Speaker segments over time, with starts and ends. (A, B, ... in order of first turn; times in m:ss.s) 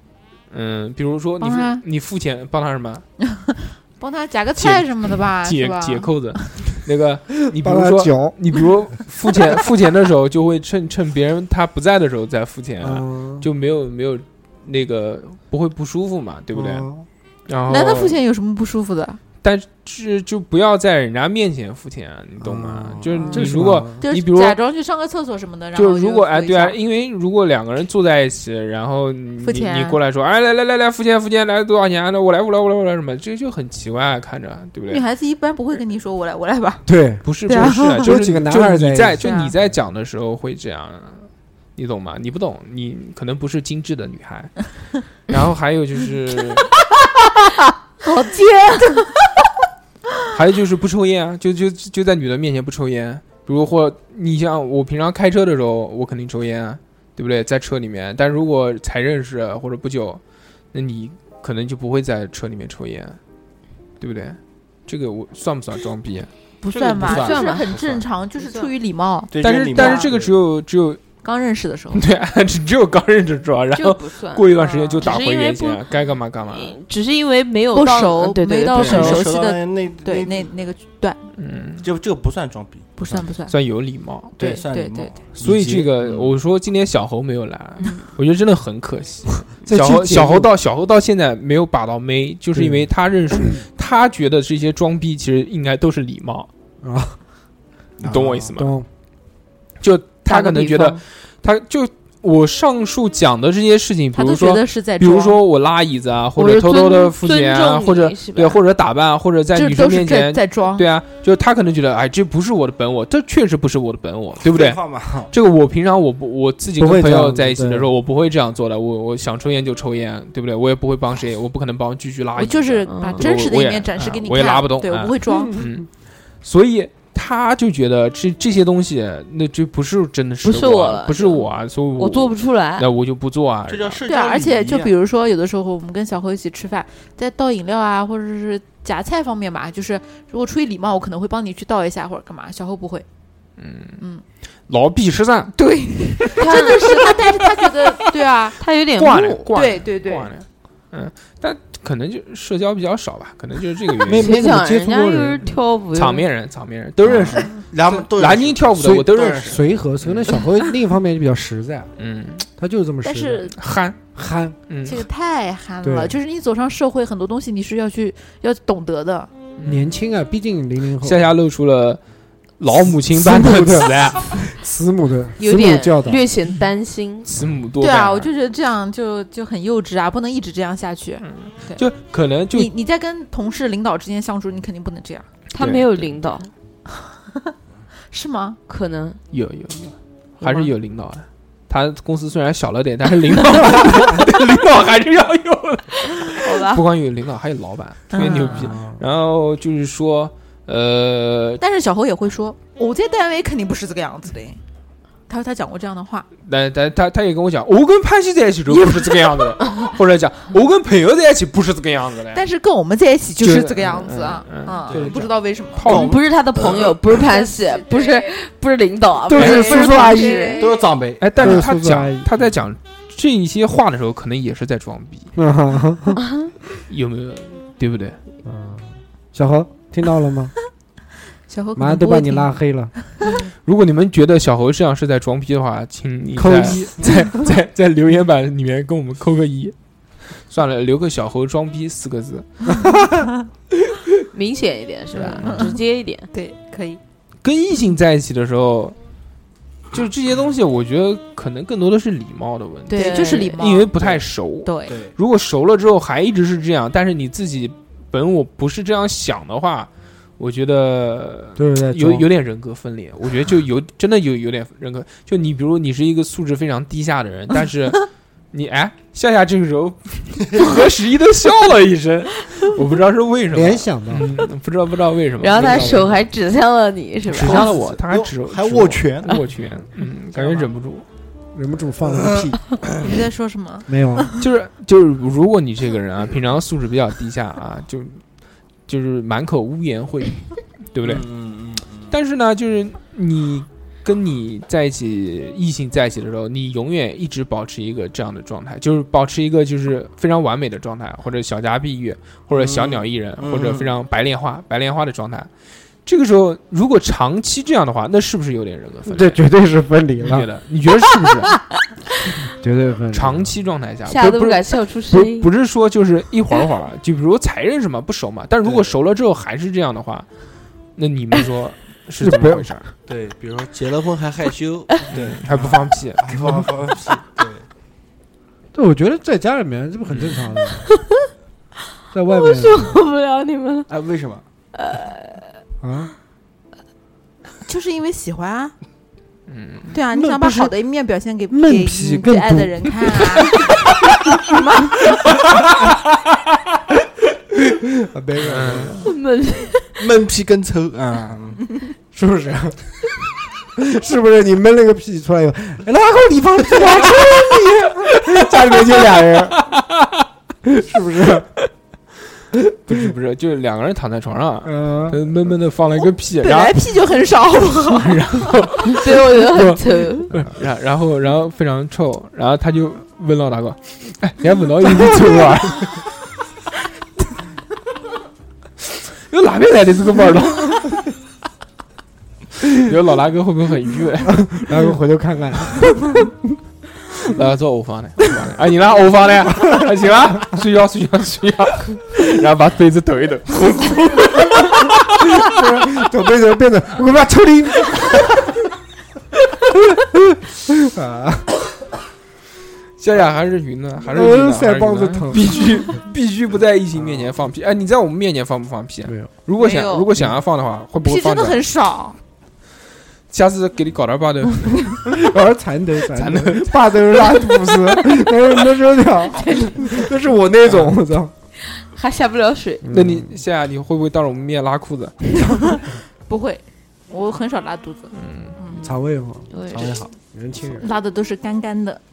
0:00.5-0:03.0 A
0:01.4-0:01.8 B
0:03.3-0:06.7 B
0:04.6-0:16.9 A
0:07.5-0:08.4 C
0:12.8-0:13.5 C
0:16.5-0:17.1 C
0:17.5-0:18.2 A
0:17.7-0:19.2 B
0:19.4-0:24.6 A
0:22.4-0:24.0 C
0:24.0-0:26.8 B
0:25.8-0:35.0 A
0:29.4-0:30.0 B
0:34.9-0:36.9 B
0:36.9-0:39.2 C
0:37.2-0:46.7 A
0:37.5-0:38.1 B
0:39.2-0:39.5 B
0:48.0-0:49.1 D
0:50.3-1:00.2 A
1:00.7-1:03.2 A
1:04.0-1:06.3 A
1:06.6-1:10.1 B
1:06.7-1:08.0 E
1:07.0-1:07.8 D
1:08.4-1:08.7 D
1:09.3-1:10.3 E
1:09.4-1:11.0 A
1:11.2-1:12.0 B
1:11.9-1:16.8 A
1:13.8-1:15.8 D
1:14.6-1:15.1 B
1:16.5-1:19.2 D
1:17.7-1:21.2 B
1:18.7-1:20.5 E
1:21.4-1:21.9 A
1:21.8-1:23.3 E
1:23.0-1:23.5 B
1:23.5-1:24.4 A
1:24.4-1:26.4 E
1:24.4-1:25.2 B
1:25.4-1:36.5 A
1:29.6-1:30.5 C
1:32.6-1:33.6 C
1:36.8-1:37.2 C
1:38.0-1:38.5 E
1:38.1-1:38.7 A
1:38.6-1:38.9 C
1:39.8-2:05.9 A
1:40.3-1:41.0 D
1:44.1-1:45.4 B
1:46.4-1:48.6 D
1:49.6-1:50.9 B
1:54.4-1:55.3 E
1:56.8-1:57.9 C
2:02.4-2:05.6 B
2:02.9-2:03.2 D
2:05.3-2:05.6 C
2:06.4-2:14.0 A
2:10.4-2:12.9 D
2:13.7-2:14.9 E
2:14.1-2:23.0 B
2:23.6-2:24.0 A
2:24.7-2:25.5 A
2:25.6-2:28.6 B
2:26.4-2:27.3 D
2:28.6-2:29.4 D
2:29.0-2:34.4 A
2:29.5-2:30.3 B
2:34.0-2:35.5 C
2:34.1-2:36.2 D
2:35.9-2:40.4 A
2:37.3-2:37.6 B
2:37.7-2:39.7 E
2:38.8-2:41.9 C
2:42.0-2:42.5 A
2:42.6-2:43.5 C
2:43.0-2:43.6 B
2:43.6-2:44.0 A
2:44.2-2:44.6 C
2:44.7-2:45.0 A
2:44.8-2:49.3 B
2:45.8-2:46.2 C
2:49.6-2:49.9 A
2:49.6-2:51.3 C
2:51.0-2:52.0 A
2:52.6-2:54.4 A
2:53.1-2:56.3 C
2:55.4-2:57.3 D
2:57.3-2:58.3 A
2:57.8-3:01.8 B
3:01.2-3:02.7 A
3:02.5-3:05.3 B
3:05.5-3:06.5 D
3:05.6-3:06.2 A
3:06.9-3:07.5 B
3:08.1-3:08.6 B
3:08.7-3:09.2 D
3:09.3-3:21.6 A
3:13.9-3:14.2 C
3:16.3-3:16.8 B
3:18.1-3:18.7 B
3:18.5-3:19.0 C
3:21.6-3:24.6 B
3:25.3-3:26.3 B
3:26.5-3:32.4 A
3:28.7-3:29.8 B
3:32.3-3:35.9 B
3:33.4-3:36.1 A
3:34.9-3:35.2 E
3:35.8-3:36.8 E
3:35.9-3:40.7 D
3:37.2-3:38.3 B
3:39.3-3:40.5 C
3:39.3-3:40.8 B
3:40.6-3:41.6 E
3:41.2-3:45.3 A
3:41.4-3:42.3 C
3:45.4-3:46.2 C
3:46.9-3:48.2 A
3:48.4-3:50.5 C
3:51.5-3:52.6 B
3:51.8-3:52.9 C
3:53.6-3:59.8 A
3:56.3-3:57.1 C
4:00.5-4:02.5 A
4:02.8-4:03.1 C
4:04.3-4:06.3 D
4:05.2-4:05.8 B
4:06.3-4:07.0 B
4:07.4-4:09.0 A
4:09.9-4:36.2 A
4:12.9-4:13.9 B
4:12.9-4:13.6 D
4:14.6-4:15.0 B
4:14.9-4:15.1 E
4:21.6-4:22.3 C
4:33.5-4:34.4 C
4:35.4-4:37.7 D
4:35.7-4:36.0 C
4:37.3-4:41.0 A
4:37.3-4:39.4 E
4:40.4-4:40.7 E
4:41.5-4:42.6 C
4:43.0-4:44.4 B
4:43.9-4:44.3 C
4:44.4-4:48.2 A
4:48.9-4:51.3 A
4:51.0-4:52.1 E
4:52.1-5:05.5 A
5:02.5-5:04.0 E
5:06.0-5:09.4 A
5:09.1-5:10.5 C
5:10.2-5:11.6 A
5:12.5-5:13.5 C
5:13.1-5:20.3 A
5:14.1-5:15.5 D
5:18.6-5:18.9 E
5:21.0-5:22.8 A
5:22.2-5:22.8 C
5:23.1-5:27.6 E
5:25.1-5:26.3 A
5:26.3-5:26.7 C
5:28.7-5:30.9 C
5:30.9-5:31.2 D
5:32.1-5:33.0 C
5:32.3-5:33.9 D
5:33.9-5:34.4 E
5:34.7-5:35.5 D
5:35.8-5:36.1 C
5:37.7-5:38.8 B
5:39.5-5:39.9 A
5:39.9-5:45.2 B
5:40.1-5:40.7 C
5:41.5-5:43.2 C
5:47.9-5:49.0 C
5:48.4-5:49.1 A
5:49.0-5:50.0 D
5:50.0-5:51.6 E
5:52.1-5:52.8 C
5:53.8-5:59.6 C
5:59.6-6:00.2 A
6:00.6-6:01.5 C
6:02.5-6:03.0 C
6:02.9-6:06.8 A
6:04.6-6:05.3 C
6:06.4-6:08.6 B
6:07.9-6:16.1 A
6:08.8-6:10.3 D
6:19.3-6:21.0 A
6:22.7-6:24.8 A
6:24.3-6:26.3 C
6:27.2-6:35.4 A
6:35.4-6:38.5 C
6:39.7-6:41.5 C
6:43.0-6:51.6 A
6:44.1-6:45.8 C
6:49.6-6:50.1 B
6:51.0-6:52.2 B
6:53.3-6:55.0 A
6:55.1-7:01.3 C
6:56.2-6:57.4 A
6:59.5-6:59.7 B
7:01.8-7:02.8 D
7:02.8-7:03.4 C
7:02.9-7:05.2 A
7:06.3-7:08.9 B
7:08.1-7:08.6 A
7:08.8-7:09.5 C
7:09.5-7:10.0 D
7:09.7-7:10.1 E
7:10.3-7:10.9 C
7:10.8-7:12.0 B